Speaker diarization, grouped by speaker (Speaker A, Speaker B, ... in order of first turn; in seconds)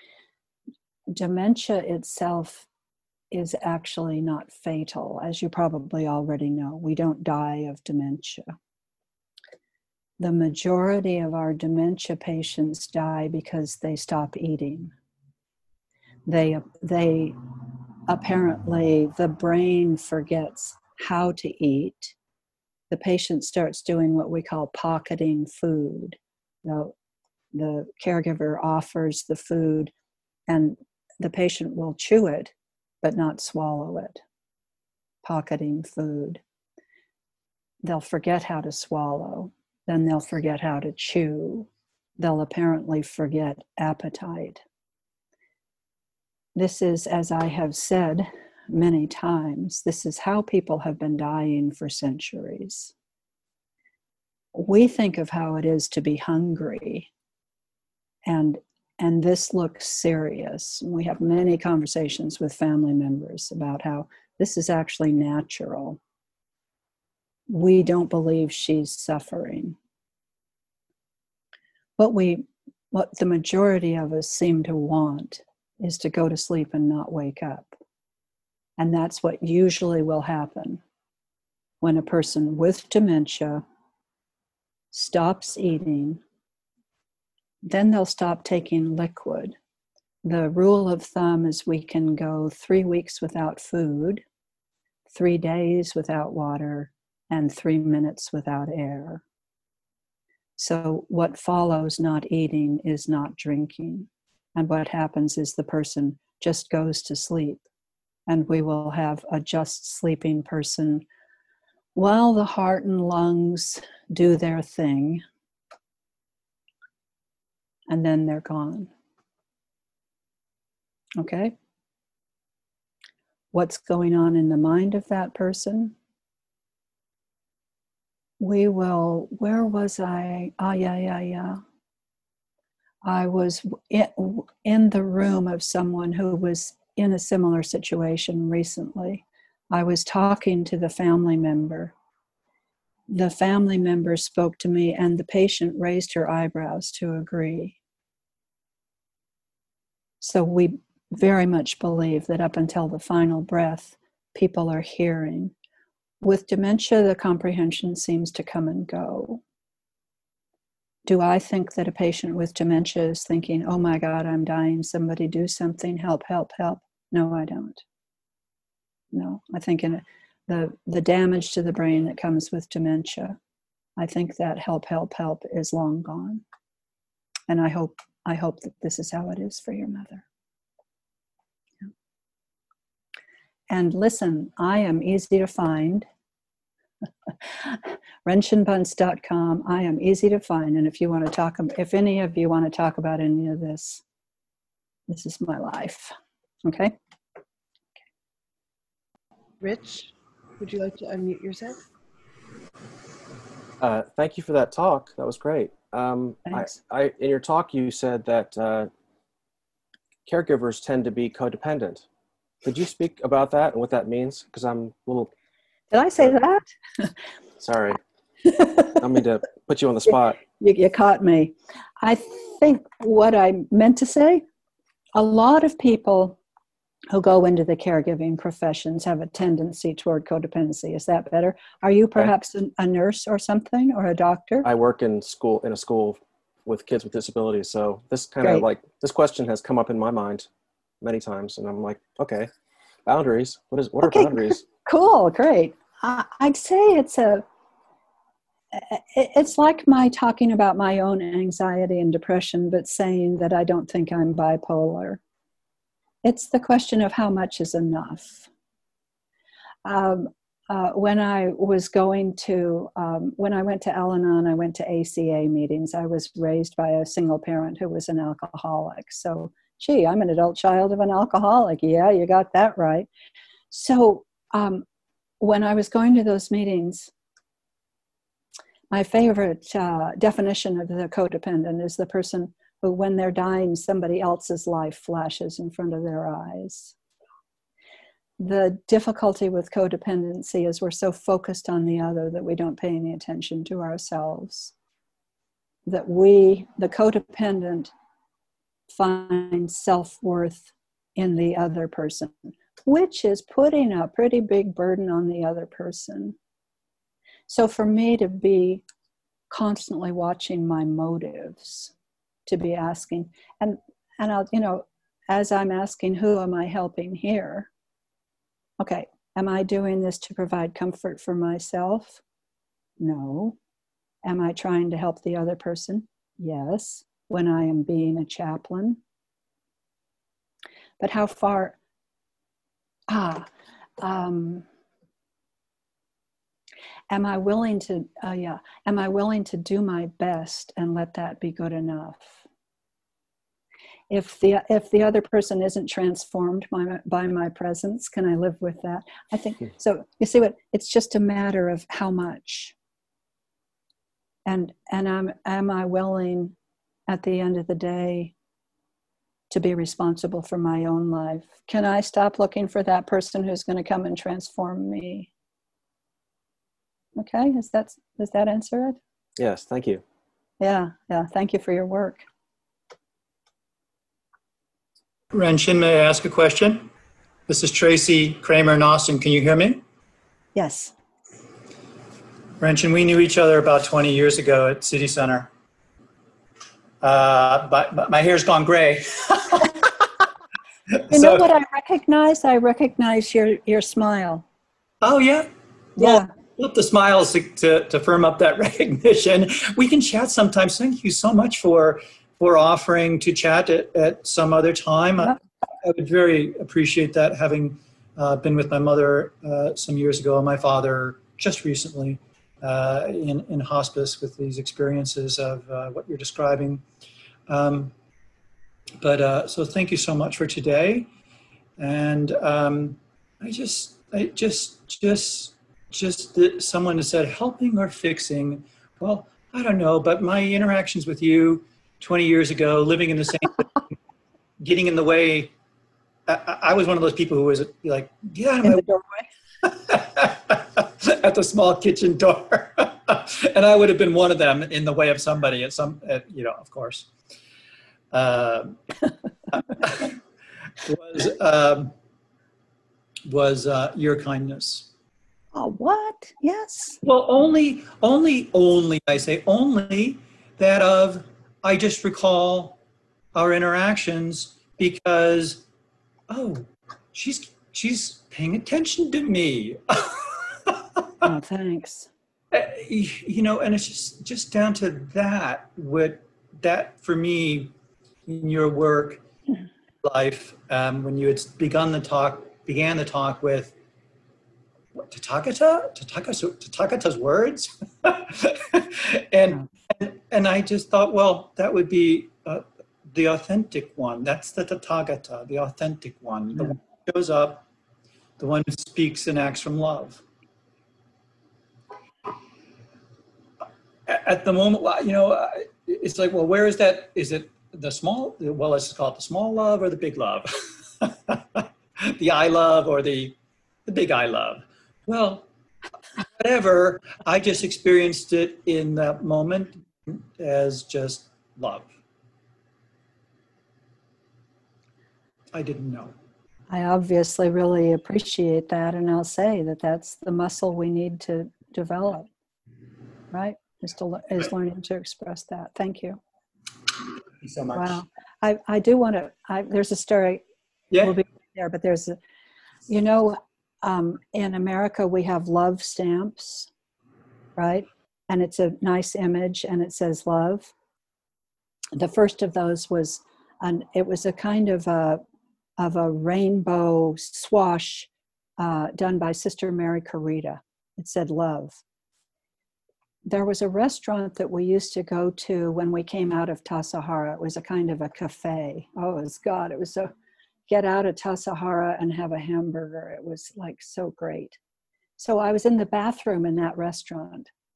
Speaker A: 1.1-2.7, 3.3-8.5, 10.2-14.9, 16.3-17.4, 18.1-22.1, 22.9-26.9, 27.5-29.9, 30.5-34.2, 35.2-36.4, 37.8-44.6, 46.6-52.9, 54.5-57.1, 58.3-66.0, 67.5-69.8, 72.0-77.8, 78.8-80.8, 81.8-83.6, 84.9-86.2, 87.6-89.6, 90.2-94.2, 95.1-99.2, 100.6-107.6, 108.3-111.0, 112.0-115.2, 117.9-118.9, 121.2-121.5, 123.5-125.9, 128.4-131.6, 133.1-141.9, 143.1-147.8, 150.2-155.5, 156.2-159.4, 161.1-167.8, 169.1-173.4, 174.0-176.4, 177.5-180.2, 183.7-186.1, 187.3-194.0, 195.1-196.1, 196.7-196.9, 206.5-206.7, 215.9-217.1, 218.4-219.0, 220.1-224.4, 225.2-226.4, 227.1-234.7, 238.4-238.7, 244.0-247.4, 248.7-255.2, 256.2-258.5, 259.9-273.1, 273.7-274.8, 275.4-277.1, 278.9-286.9, 288.4-294.7, 295.9-297.9, 298.9-306.4, 307.5-308.8, 309.5-311.9, 312.5-317.7, 318.8-322.2, 323.0-323.6, 324.2-329.0, 331.0-331.8, 333.1-333.5, 334.0-334.6, 337.1-342.4, 344.1-352.7, 354.5-356.5, 357.1-358.3, 359.5-365.3, 367.2-369.0, 370.6-372.2, 380.6-380.9, 391.1-394.4, 396.0-396.3, 438.6-439.2, 455.5-457.0, 471.2-472.1, 526.7-532.3, 533.3-536.2, 537.7-540.4, 541.0-542.2, 542.9-546.7, 547.6-550.7, 552.0-555.2, 555.8-561.8, 563.3-570.1, 570.7-574.6, 575.2-577.5
Speaker B: 199.6-201.8
Speaker C: 203.8-208.9, 210.3-212.1, 212.6-215.3, 217.6-218.0, 219.0-220.4, 234.6-240.5, 241.0-242.5, 243.1-244.6, 369.4-370.0
Speaker D: 375.3-376.9, 377.5-379.8, 382.6-385.5, 387.0-389.9, 391.1-391.5, 395.0-416.8, 417.5-417.9, 419.0-421.1, 421.8-433.9, 434.6-435.5, 436.3-438.9, 439.6-447.1, 448.1-448.8, 449.5-450.1, 450.8-451.9, 453.3-454.9, 457.0-462.8, 463.4-465.6, 466.3-471.0, 472.5-477.7, 478.3-479.2, 480.0-483.7, 484.9-497.6, 498.4-500.2, 504.1-515.5, 516.2-521.9, 525.5-526.1, 537.4-538.0